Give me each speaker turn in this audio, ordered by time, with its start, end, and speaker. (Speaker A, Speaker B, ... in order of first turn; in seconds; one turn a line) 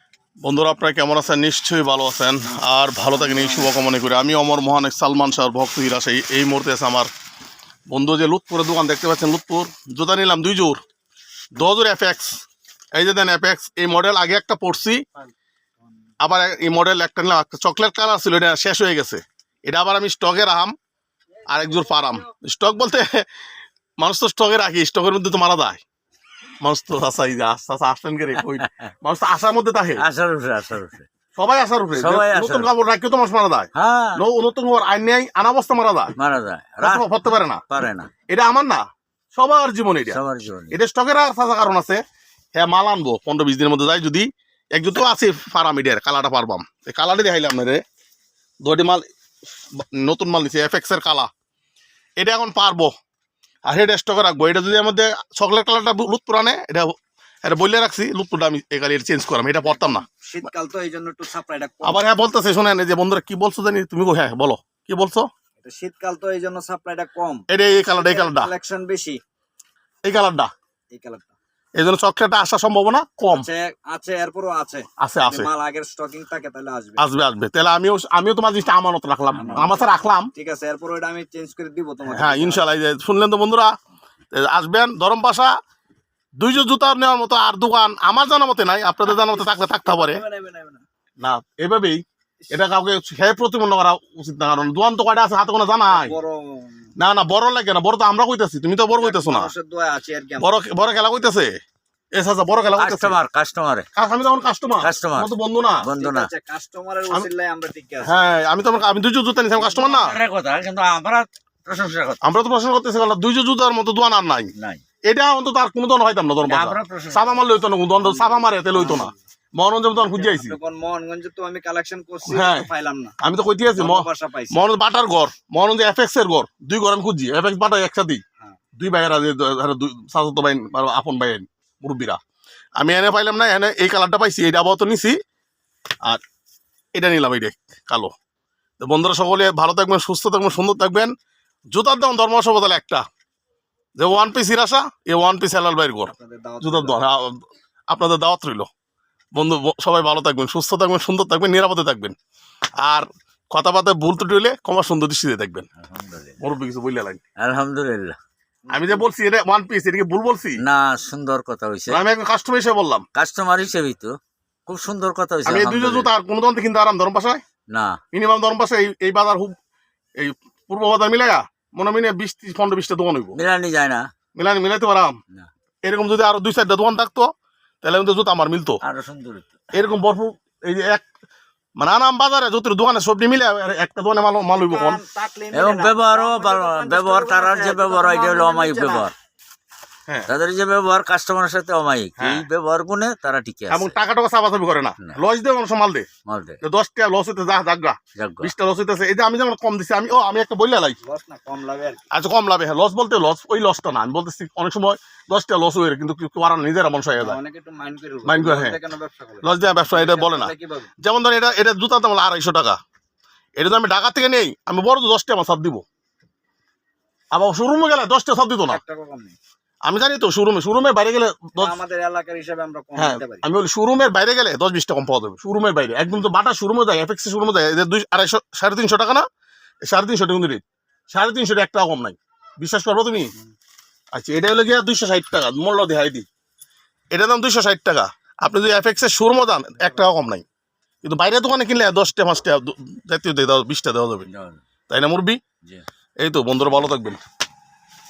Speaker A: 0.4-7.1
Speaker B: 3.3-3.6
Speaker A: 7.9-10.8
Speaker A: 11.6-12.4
Speaker A: 12.9-15.0
Speaker A: 16.2-20.7
Speaker A: 21.5-23.2
Speaker A: 24.0-25.8
Speaker A: 26.6-30.0
Speaker B: 28.4-28.7
Speaker B: 30.0-31.1
Speaker A: 31.3-36.1
Speaker B: 31.9-32.7
Speaker B: 33.7-34.2
Speaker B: 36.1-38.1
Speaker A: 36.8-37.6
Speaker A: 38.3-42.0
Speaker B: 40.1-40.8
Speaker A: 42.5-47.8
Speaker A: 48.6-49.0
Speaker A: 49.8-51.3
Speaker A: 52.2-52.9
Speaker A: 53.7-60.0
Speaker C: 59.9-62.1
Speaker A: 61.8-65.3
Speaker C: 65.6-69.2
Speaker A: 67.5-68.5
Speaker A: 70.0-70.5
Speaker C: 70.9-71.3
Speaker A: 71.8-73.5
Speaker C: 73.3-77.0
Speaker A: 75.0-75.5
Speaker A: 77.0-80.3
Speaker C: 79.3-82.6
Speaker A: 82.1-83.7
Speaker A: 84.3-85.5
Speaker A: 86.4-90.2
Speaker C: 89.1-90.8
Speaker A: 91.2-96.2
Speaker C: 95.8-96.9
Speaker A: 97.0-99.5
Speaker C: 99.0-100.5
Speaker A: 100.4-101.6
Speaker A: 102.1-103.2
Speaker B: 102.8-103.9
Speaker A: 104.0-105.8
Speaker B: 104.8-106.3
Speaker C: 105.9-108.2
Speaker A: 108.0-110.2
Speaker B: 109.5-112.2
Speaker A: 112.2-114.5
Speaker B: 114.6-114.8
Speaker A: 115.1-120.6
Speaker B: 116.4-117.5
Speaker C: 118.0-119.1
Speaker C: 119.9-123.2
Speaker A: 122.2-122.7
Speaker A: 123.2-128.2
Speaker C: 123.8-124.6
Speaker A: 128.8-132.2
Speaker A: 132.8-135.2
Speaker A: 136.9-138.1
Speaker A: 138.8-141.1
Speaker A: 141.7-143.0
Speaker A: 144.0-148.7
Speaker C: 146.1-147.0
Speaker A: 149.3-152.2
Speaker A: 152.8-155.7
Speaker B: 155.8-156.4
Speaker A: 156.4-157.2
Speaker B: 157.4-158.2
Speaker C: 158.7-159.1
Speaker A: 158.7-160.6
Speaker B: 160.6-162.0
Speaker A: 161.9-163.0
Speaker B: 163.2-164.1
Speaker B: 164.7-166.1
Speaker A: 165.4-167.4
Speaker B: 167.7-168.0
Speaker A: 168.1-169.6
Speaker A: 170.2-173.4
Speaker B: 173.3-174.0
Speaker A: 174.3-175.2
Speaker A: 175.8-177.3
Speaker A: 177.8-178.8
Speaker B: 178.8-179.6
Speaker A: 179.7-181.0
Speaker A: 181.8-185.0
Speaker C: 184.6-189.1
Speaker B: 185.5-189.1
Speaker B: 190.3-194.0
Speaker A: 192.2-192.4
Speaker A: 193.7-196.1
Speaker B: 196.2-196.6
Speaker A: 196.6-201.0
Speaker B: 198.2-198.5
Speaker C: 201.0-202.1
Speaker A: 202.1-207.4
Speaker C: 207.2-210.9
Speaker A: 208.2-208.8
Speaker A: 209.4-212.8
Speaker A: 213.6-215.8
Speaker A: 217.3-218.8
Speaker C: 218.6-219.4
Speaker A: 219.9-221.8
Speaker C: 221.6-223.4
Speaker A: 223.0-229.2
Speaker A: 229.8-233.3
Speaker A: 234.1-236.2
Speaker A: 237.1-240.4
Speaker A: 241.0-244.3
Speaker B: 244.2-244.6
Speaker A: 244.9-245.4
Speaker A: 246.2-247.2